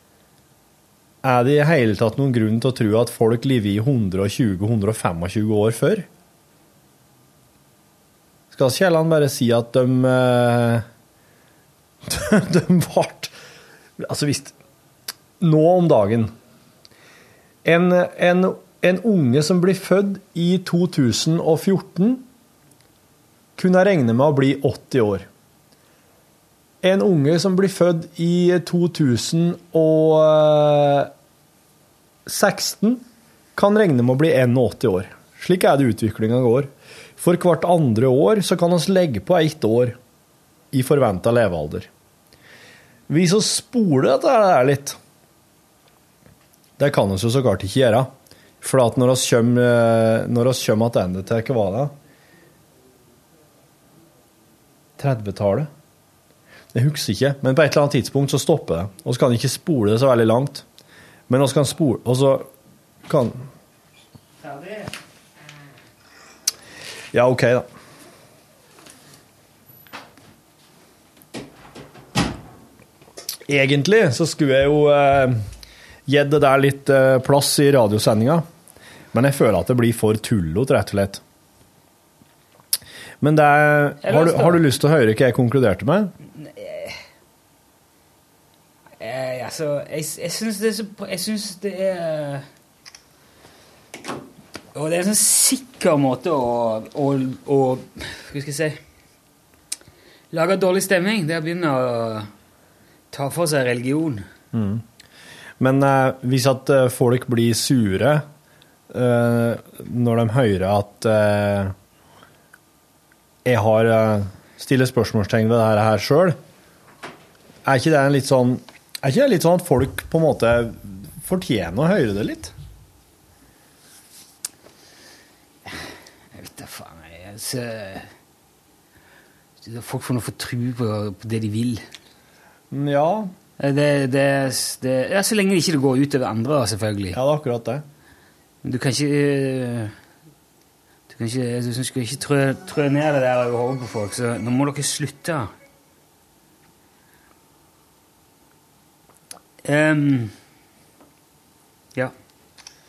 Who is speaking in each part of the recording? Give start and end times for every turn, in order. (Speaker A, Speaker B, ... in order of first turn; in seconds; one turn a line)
Speaker A: 1.2-6.1
Speaker A: 8.5-10.8
Speaker A: 12.0-13.3
Speaker A: 14.0-14.5
Speaker A: 15.4-16.3
Speaker A: 17.6-22.2
Speaker A: 23.6-25.3
Speaker A: 26.8-31.1
Speaker A: 32.2-33.0
Speaker A: 33.5-40.0
Speaker A: 40.7-41.9
Speaker A: 43.1-45.0
Speaker A: 46.8-48.1
Speaker A: 48.6-51.9
Speaker A: 55.0-55.7
Speaker A: 56.7-60.6
Speaker A: 61.3-62.5
Speaker A: 63.1-63.5
Speaker B: 64.4-64.9
Speaker A: 67.1-67.7
Speaker A: 73.5-75.5
Speaker A: 76.1-78.4
Speaker A: 79.1-81.2
Speaker A: 83.2-86.1
Speaker B: 84.0-84.6
Speaker B: 86.4-87.0
Speaker B: 89.0-92.5
Speaker B: 94.7-98.8
Speaker B: 100.3-102.3
Speaker B: 103.1-104.2
Speaker A: 104.5-104.8
Speaker A: 105.6-108.2
Speaker A: 108.9-111.7
Speaker A: 113.4-116.4
Speaker A: 117.6-122.5
Speaker B: 125.7-128.1
Speaker B: 129.6-131.8
Speaker A: 132.7-133.3
Speaker B: 133.6-137.2
Speaker A: 137.1-137.8
Speaker B: 138.6-139.9
Speaker B: 141.1-145.5
Speaker B: 149.6-150.3